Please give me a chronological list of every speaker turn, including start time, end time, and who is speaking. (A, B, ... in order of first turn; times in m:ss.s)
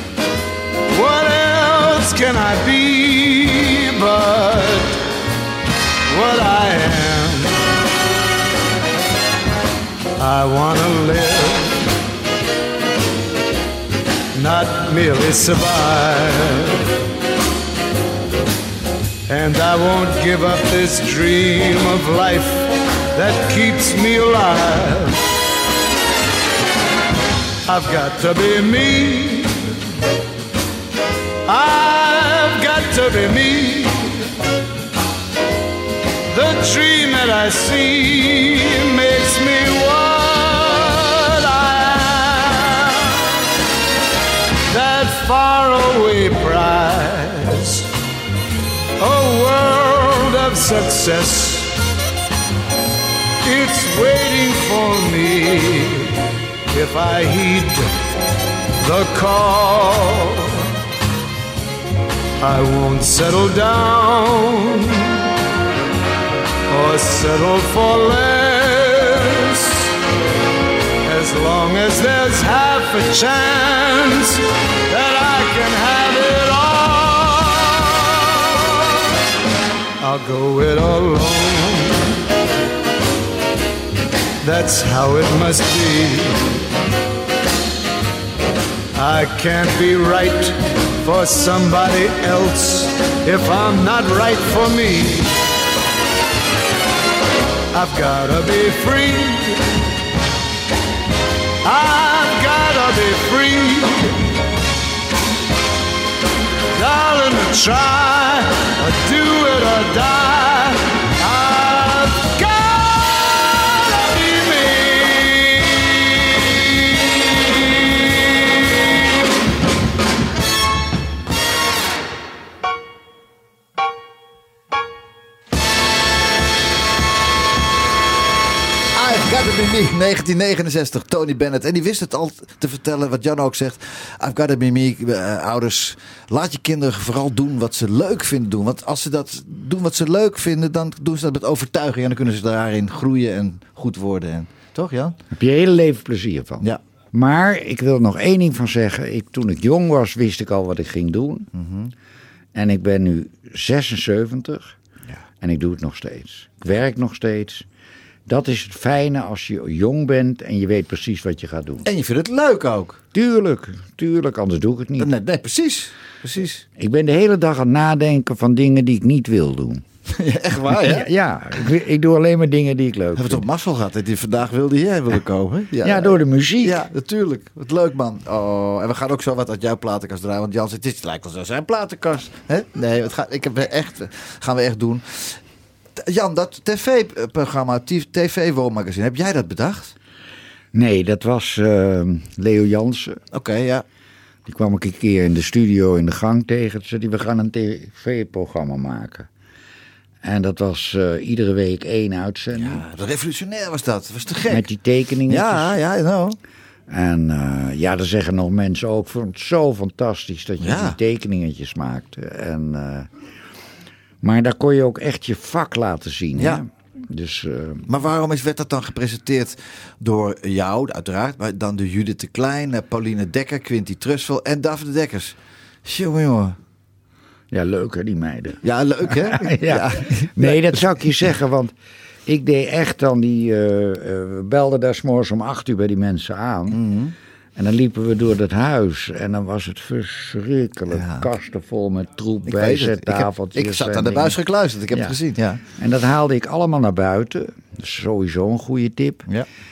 0:00.9-0:05.0 A
0:06.1-0:07.6 A
0:10.2-0:11.8 A
0:14.4-0:16.8 A
0:19.3-0:25.2 A
0:27.6-0:29.7 A
0:31.4-0:34.1 A
0:36.3-0:43.2 A
0:44.7-0:47.9 A
0:49.0-0:51.7 A
0:53.4-0:56.2 A
0:56.7-0:57.9 A
0:58.8-1:00.6 A
1:02.4-1:05.2 A
1:06.7-1:09.9 A
1:11.0-1:18.7 A
1:20.0-1:22.0 A
1:24.4-1:26.4 A
1:28.9-1:35.3 A
1:37.7-1:39.6 A
1:41.6-1:44.1 A
1:46.7-1:56.0 A
2:08.9-2:25.2 B
2:25.4-2:31.5 C
2:31.5-2:31.9 B
2:32.5-2:34.7 C
2:35.4-2:37.6 C
2:38.2-2:41.9 C
2:41.8-2:43.0 B
2:43.1-2:45.1 C
2:45.0-2:46.6 B
2:46.8-2:49.8 C
2:50.1-2:51.1 B
2:50.7-2:53.4 C
2:53.2-3:05.4 B
2:55.8-2:56.9 C
3:06.0-3:09.9 B
3:10.7-3:13.2 C
3:13.3-3:13.8 B
3:14.4-3:19.3 C
3:20.2-3:22.8 C
3:22.5-3:24.7 B
3:24.5-3:25.8 C
3:25.3-3:26.4 B
3:26.9-3:33.1 C
3:30.6-3:31.0 B
3:34.2-3:37.9 C
3:36.4-3:36.6 B
3:37.9-3:46.6 B
3:47.5-3:51.7 C
3:48.6-3:50.9 B
3:52.2-3:56.8 C
3:56.7-3:57.1 B
3:57.6-4:04.4 C
4:00.9-4:01.3 B
4:02.4-4:05.6 B
4:05.7-4:09.2 C